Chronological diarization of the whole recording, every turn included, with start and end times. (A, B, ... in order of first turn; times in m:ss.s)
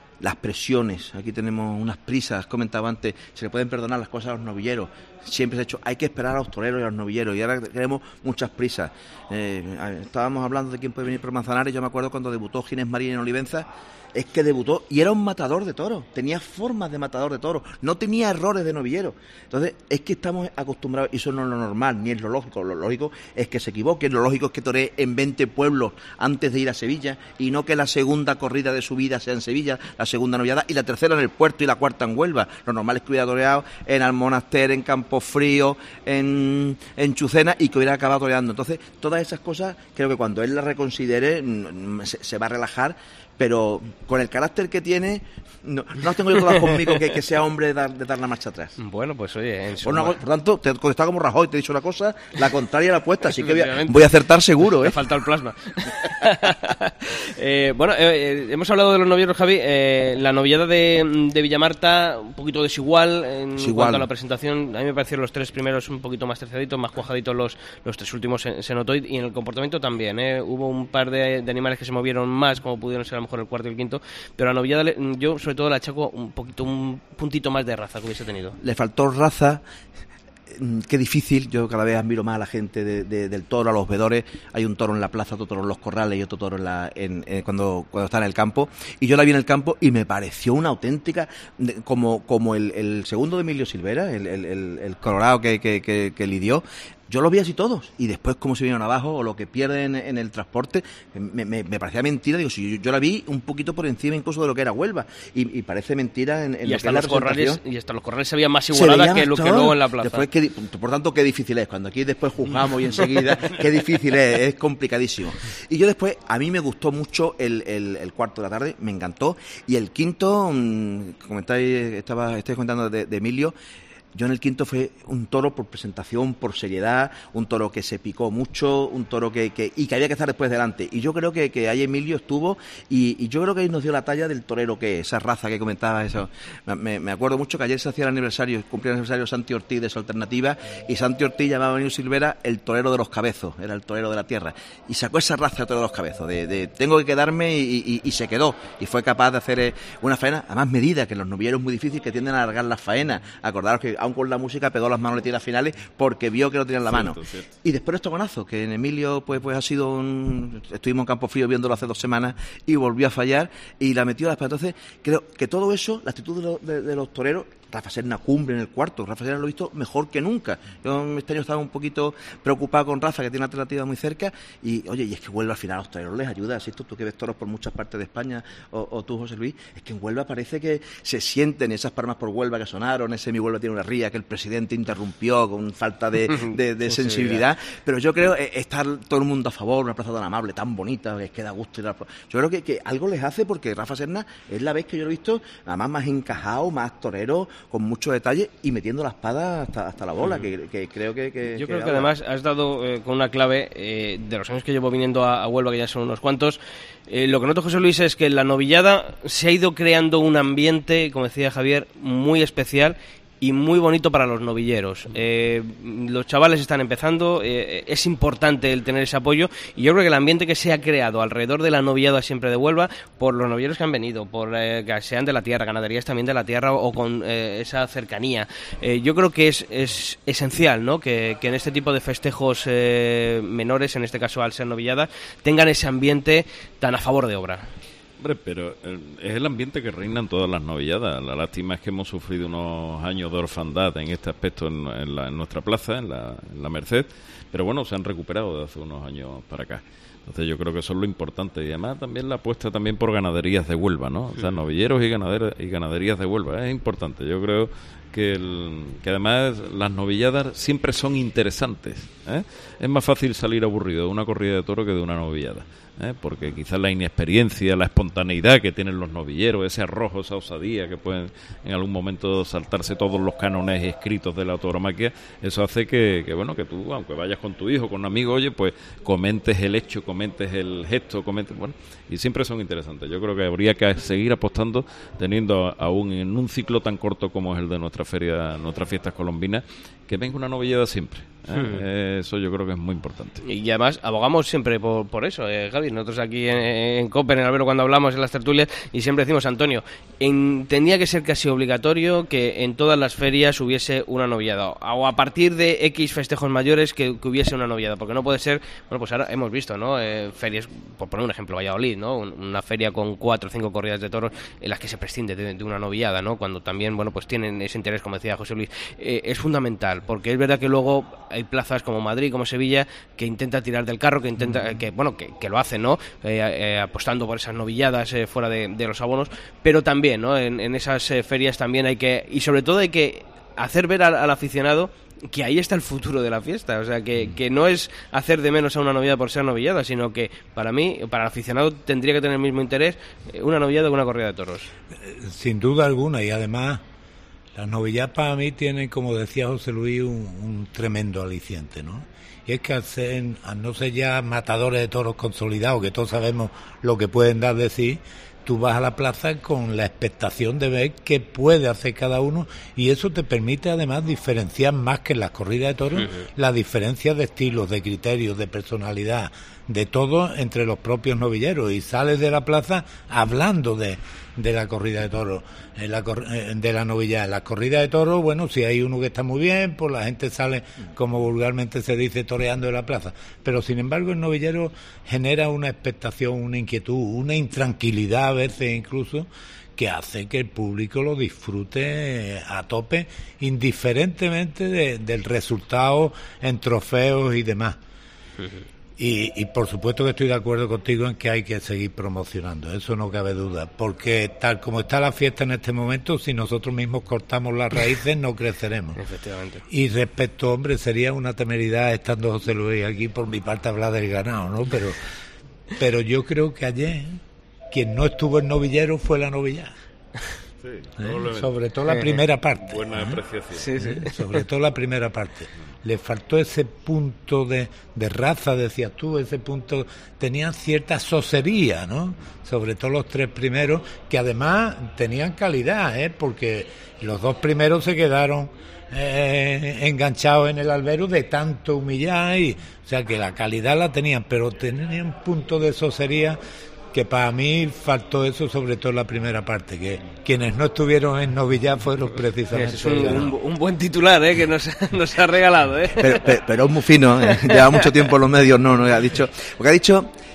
0:00.2-0:48.8 A
0:46.6-0:46.9 B
0:48.8-0:50.2 B
0:49.8-0:55.0 A
0:53.4-0:54.0 B
0:54.7-1:18.6 B
1:03.6-1:04.1 A
1:18.6-1:19.6 A
1:20.5-1:47.6 A
1:46.7-1:50.3 B
1:48.7-2:03.6 A
2:04.2-3:22.1 A
2:36.9-2:37.5 C
3:06.3-3:07.4 B
3:20.2-3:20.5 B
3:21.6-3:57.7 B
3:58.2-4:53.4 C
4:51.5-4:51.8 B
4:53.4-5:44.7 B
5:45.0-5:46.8 D
5:47.6-6:37.8 D
6:38.4-6:38.6 B
6:39.0-6:49.0 D
6:49.0-6:49.6 B
6:49.7-6:55.0 D
6:55.8-6:57.2 D
6:57.7-6:59.7 D
7:00.6-7:01.5 C
7:01.0-7:03.2 D
7:01.9-7:02.2 B
7:02.7-7:03.7 C
7:03.6-7:04.1 B
7:03.7-7:26.4 D
7:26.9-7:33.3 D
7:32.5-7:36.2 B
7:36.0-7:40.1 A
7:37.3-7:37.6 B